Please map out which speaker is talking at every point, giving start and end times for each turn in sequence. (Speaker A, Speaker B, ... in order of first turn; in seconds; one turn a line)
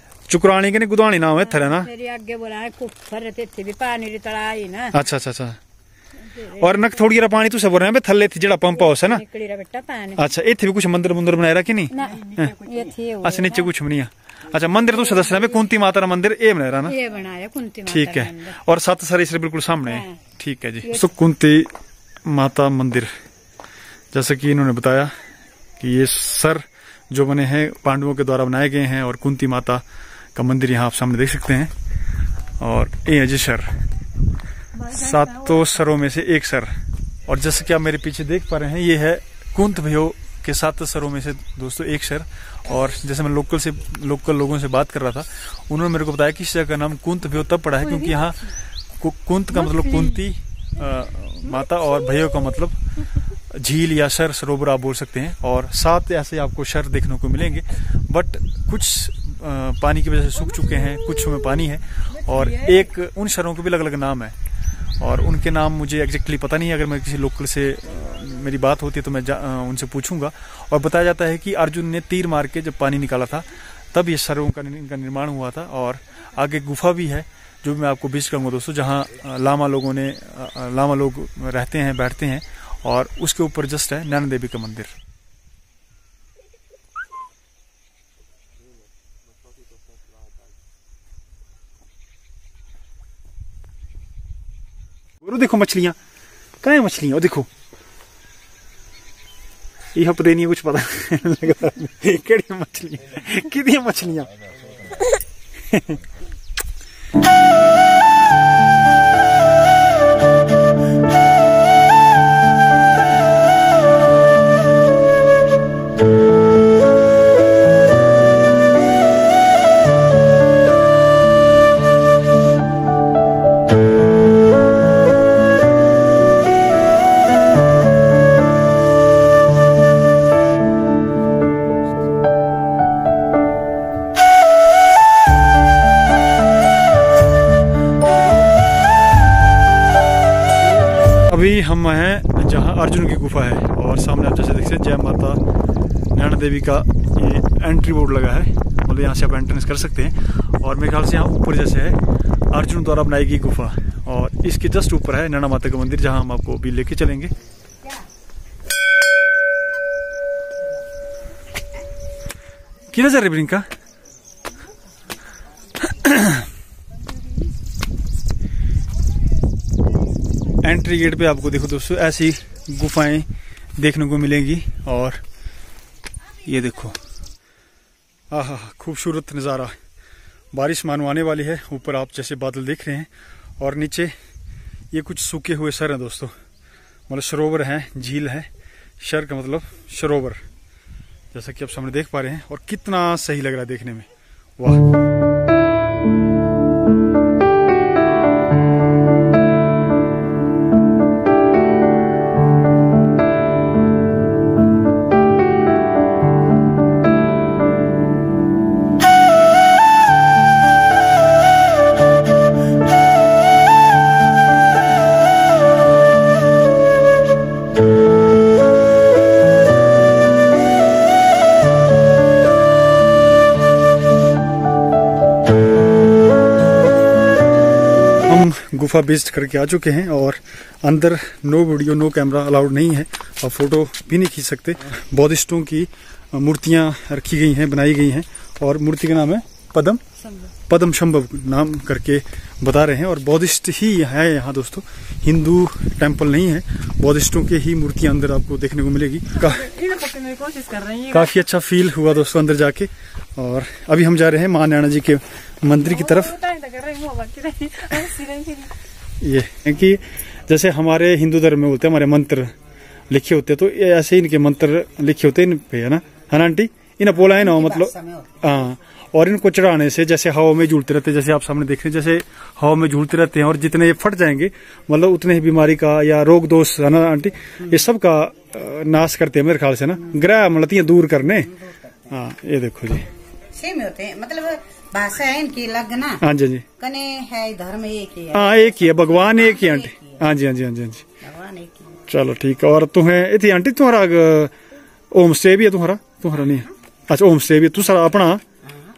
Speaker A: 0.3-1.9
Speaker B: 1.4-5.0
Speaker A: 4.9-5.6
Speaker B: 6.3-7.0
Speaker A: 6.5-9.2
Speaker B: 8.7-10.2
Speaker A: 10.2-12.6
Speaker B: 11.9-13.7
Speaker A: 13.2-16.9
Speaker B: 14.8-15.4
Speaker B: 16.8-18.6
Speaker A: 17.9-21.7
Speaker B: 19.8-20.1
Speaker B: 20.8-21.1
Speaker A: 22.2-23.1
Speaker A: 24.1-25.1
Speaker A: 25.8-29.8
Speaker A: 30.4-31.7
Speaker A: 32.6-33.7
Speaker A: 34.9-36.7
Speaker A: 37.3-52.8
Speaker B: 49.5-50.2
Speaker A: 53.5-64.3
Speaker A: 65.0-84.9
Speaker A: 95.2-96.0
Speaker A: 96.6-97.5
Speaker A: 99.9-104.3
Speaker A: 105.7-106.0
Speaker A: 141.2-145.4
Speaker A: 146.1-157.3
Speaker A: 162.9-163.6
Speaker A: 165.8-166.4
Speaker A: 170.6-173.3
Speaker A: 173.8-175.2
Speaker A: 176.4-177.0
Speaker A: 178.3-179.7
Speaker A: 180.5-184.1
Speaker A: 184.9-186.3
Speaker A: 187.1-188.5
Speaker A: 189.0-190.4
Speaker A: 191.3-194.1
Speaker A: 194.6-194.8
Speaker A: 228.3-240.0
Speaker A: 240.7-249.7
Speaker B: 249.5-251.3
Speaker A: 251.1-256.4
Speaker B: 255.8-258.7
Speaker A: 259.2-262.5
Speaker A: 263.1-281.5
Speaker C: 267.3-268.4
Speaker C: 281.7-281.9
Speaker A: 282.1-283.0
Speaker C: 283.6-286.2
Speaker A: 286.2-286.6
Speaker C: 286.8-290.2
Speaker A: 288.3-291.1
Speaker C: 291.2-292.0
Speaker A: 292.1-294.5
Speaker A: 295.1-298.4